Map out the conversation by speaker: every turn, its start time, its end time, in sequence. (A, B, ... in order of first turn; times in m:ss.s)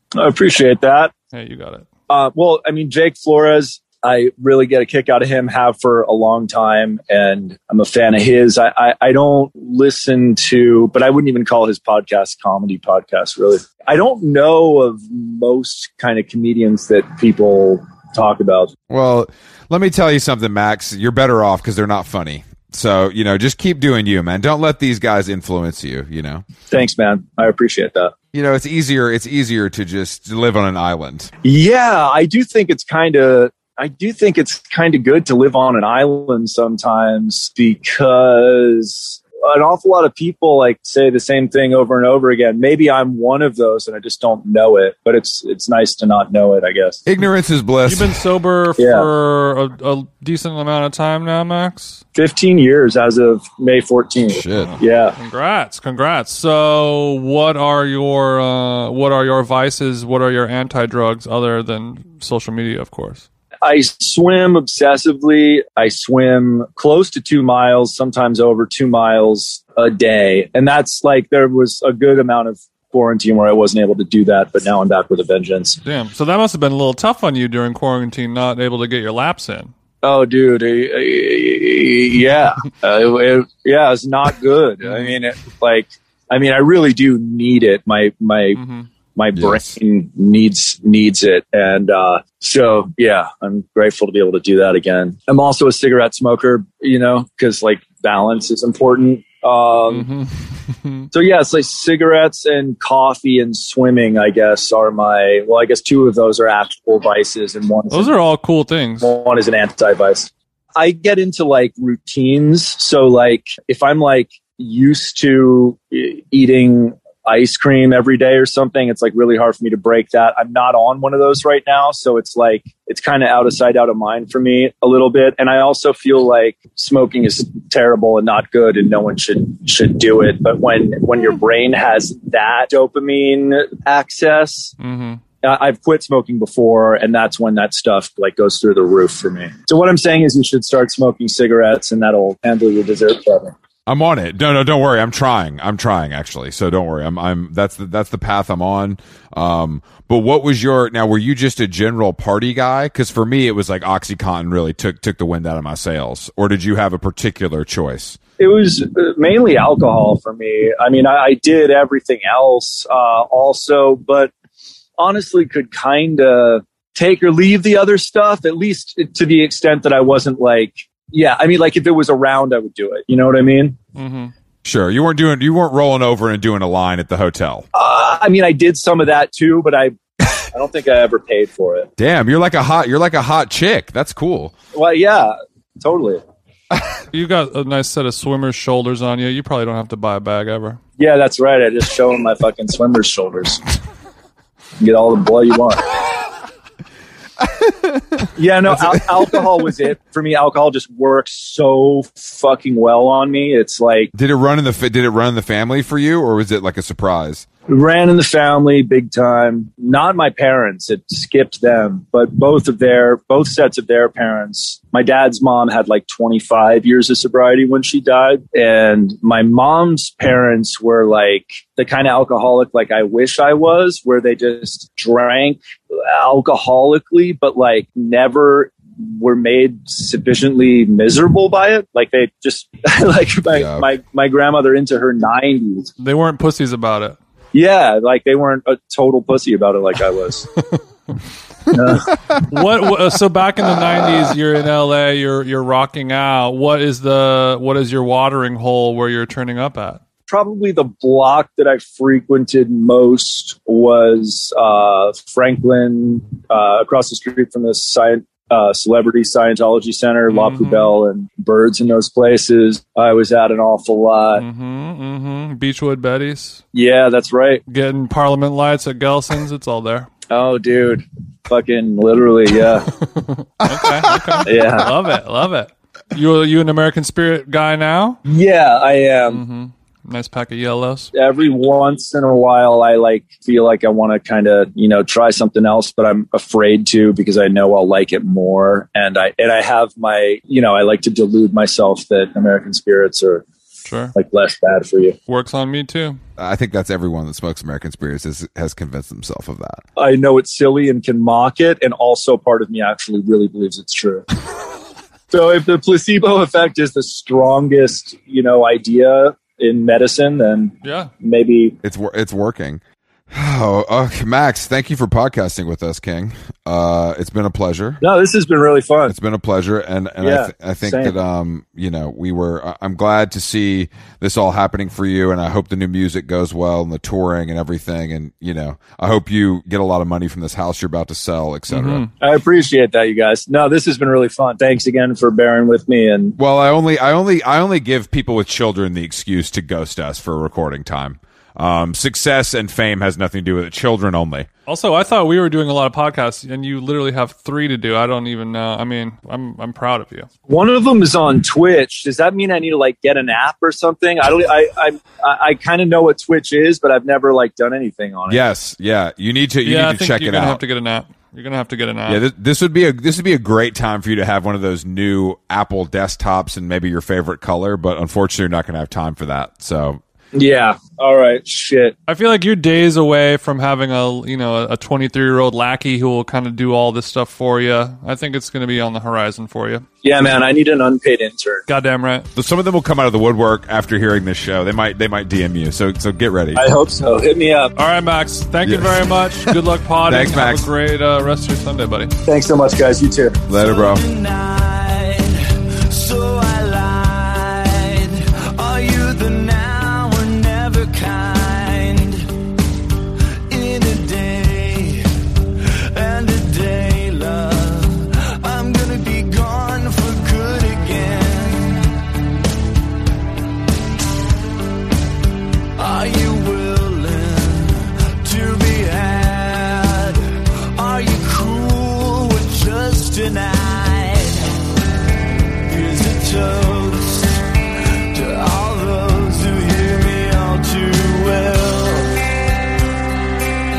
0:00.1-0:01.1 A
0:01.3-0:01.8 B
0:02.1-0:18.7 A
0:18.9-0:26.4 C
0:26.7-0:28.1 A
0:28.3-0:31.3 C
0:31.4-0:47.0 A
0:47.0-0:48.2 C
0:47.9-0:52.0 B
0:48.8-0:49.1 A
0:52.1-0:55.2 A
0:54.3-0:54.8 C
0:54.6-1:03.2 B
1:03.6-1:15.8 A
1:15.8-1:19.7 B
1:20.0-1:28.6 A
1:24.8-1:25.1 B
1:28.6-1:28.9 B
1:29.2-1:40.1 A
1:29.4-1:29.8 C
1:39.9-1:41.1 B
1:41.1-1:48.1 A
1:47.9-1:49.1 B
1:49.0-2:14.7 A
2:14.8-2:15.2 B
2:15.4-2:23.5 A
2:23.9-2:38.2 C
2:38.4-2:44.3 A
2:45.0-2:53.8 A
2:54.0-2:54.3 B
2:54.6-2:57.6 C
2:57.7-3:00.0 A
3:00.5-3:01.9 A
3:02.0-3:04.5 C
3:04.7-3:06.2 A
3:07.1-3:10.8 B
3:11.0-3:13.6 A
3:14.8-3:15.8 A
3:17.4-3:19.0 C
3:18.4-3:24.1 A
3:24.1-3:27.4 C
3:27.7-3:55.9 A
3:53.5-3:53.9 C
3:56.0-3:57.2 B
3:57.5-4:00.5 A
4:01.7-4:02.2 A
4:02.3-4:10.0 B
4:10.3-4:24.4 A
4:20.3-4:20.9 B
4:24.4-4:26.6 B
4:26.7-4:27.6 A
4:27.7-4:30.1 B
4:30.3-4:32.9 A
4:33.0-4:38.2 B
4:33.6-4:34.4 C
4:34.4-4:34.9 A
4:38.2-4:39.4 A
4:39.3-4:41.1 B
4:41.1-4:53.4 A
4:53.8-4:54.1 B
4:54.1-4:55.2 A
4:55.3-4:56.2 B
4:56.4-4:59.8 C
5:00.0-5:04.2 A
5:05.3-5:11.8 A
5:10.8-5:11.1 B
5:11.8-5:12.8 C
5:13.3-5:18.0 C
5:18.0-5:19.1 A
5:19.1-5:32.0 C
5:20.2-5:21.1 A
5:31.7-5:32.1 B
5:32.2-5:36.4 A
5:36.4-5:44.5 C
5:44.7-5:50.3 B
5:50.5-5:58.4 A
5:58.3-6:00.6 C
5:59.6-6:02.2 B
6:02.1-6:10.0 C
6:10.3-6:11.9 A
6:12.1-6:19.8 B
6:20.0-6:21.6 A
6:21.7-6:22.3 B
6:22.3-6:26.6 C
6:26.5-6:27.7 A
6:27.8-6:32.1 B
6:28.6-6:29.6 C
6:30.1-6:30.7 C
6:32.2-6:42.3 A
6:33.5-6:34.0 C
6:43.5-6:45.1 A
6:45.8-6:51.9 A
6:55.8-7:04.5 A
7:05.7-7:07.4 A
7:08.1-7:12.1 A